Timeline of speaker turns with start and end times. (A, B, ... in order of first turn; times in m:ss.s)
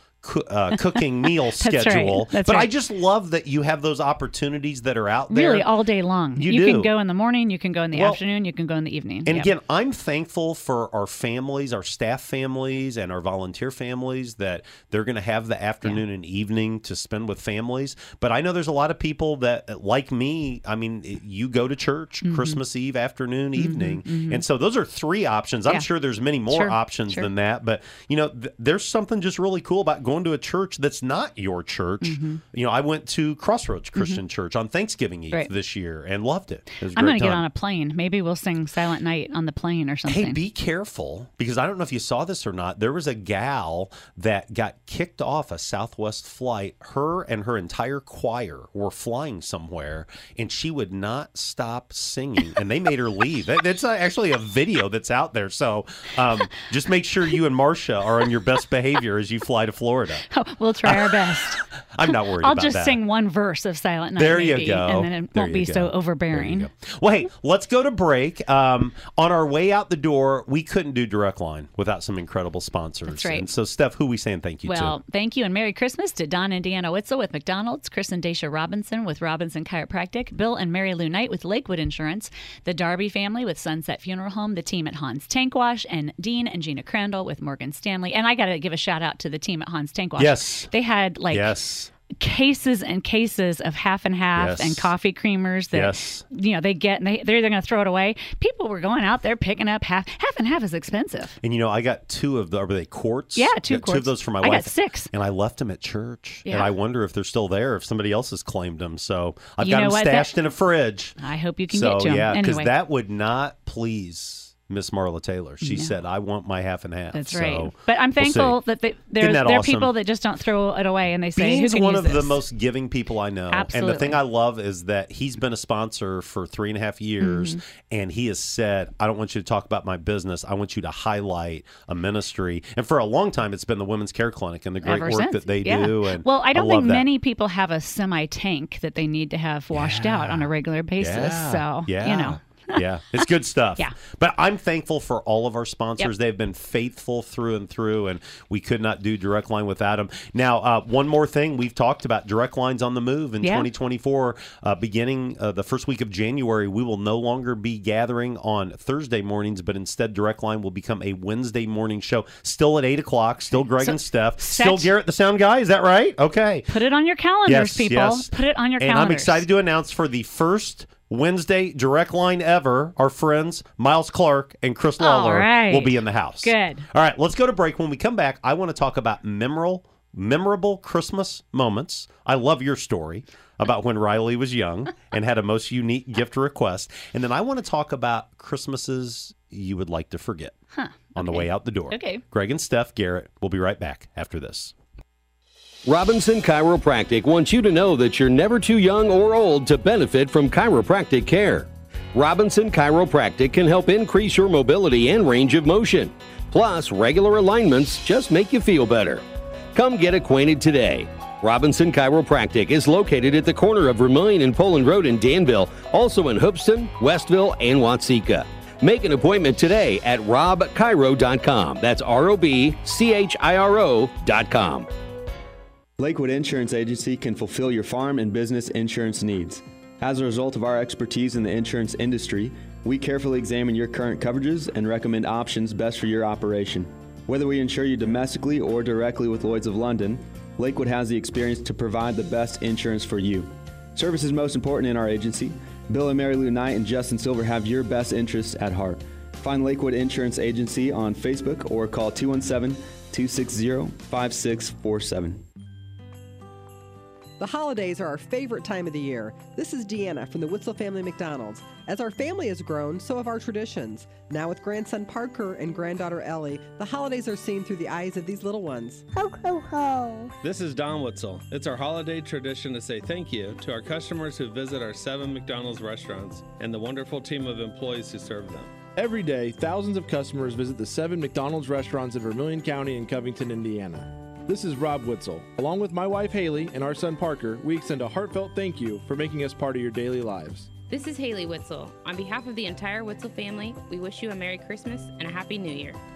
0:00.2-0:05.7 A
0:01.6-0:02.7 B
0:05.3-0:09.5 B
0:06.4-0:06.9 A
0:07.9-0:08.2 A
0:09.2-0:37.4 A
0:22.2-0:22.6 B
0:23.6-0:24.4 B
0:26.5-0:27.3 B
0:32.0-0:32.4 B
0:34.0-0:34.2 B
0:36.9-0:40.4 B
0:40.0-1:00.2 A
1:00.3-1:06.7 B
1:00.8-1:03.0 A
1:04.2-1:15.0 A
1:13.1-1:13.4 B
1:14.6-1:31.5 B
1:30.2-1:30.7 A
1:31.3-1:31.9 A
1:32.1-1:41.4 B
1:34.4-1:34.9 A
1:35.7-1:36.2 A
1:41.4-1:51.2 A
1:43.3-1:45.1 B
1:46.4-1:46.7 B
1:49.6-1:50.3 B
1:51.2-1:52.7 B
1:51.7-1:58.6 A
1:55.6-1:55.9 B
1:57.1-2:02.4 B
1:59.2-1:59.9 A
2:01.4-2:17.1 A
2:03.5-2:04.2 B
2:07.2-2:07.6 B
2:14.8-2:22.8 B
2:19.7-2:46.7 A
2:33.4-2:33.7 B
2:43.6-2:44.9 B
2:46.7-2:49.4 B
2:47.4-3:10.6 A
2:55.0-2:56.8 B
3:10.7-3:12.2 B
3:11.1-3:14.7 A
3:15.8-3:29.2 C
3:29.7-3:44.9 C
3:46.0-4:15.4 D
4:17.4-4:29.0 E
4:30.4-4:38.7 F
4:38.9-4:50.7 G
4:50.9-4:56.0 H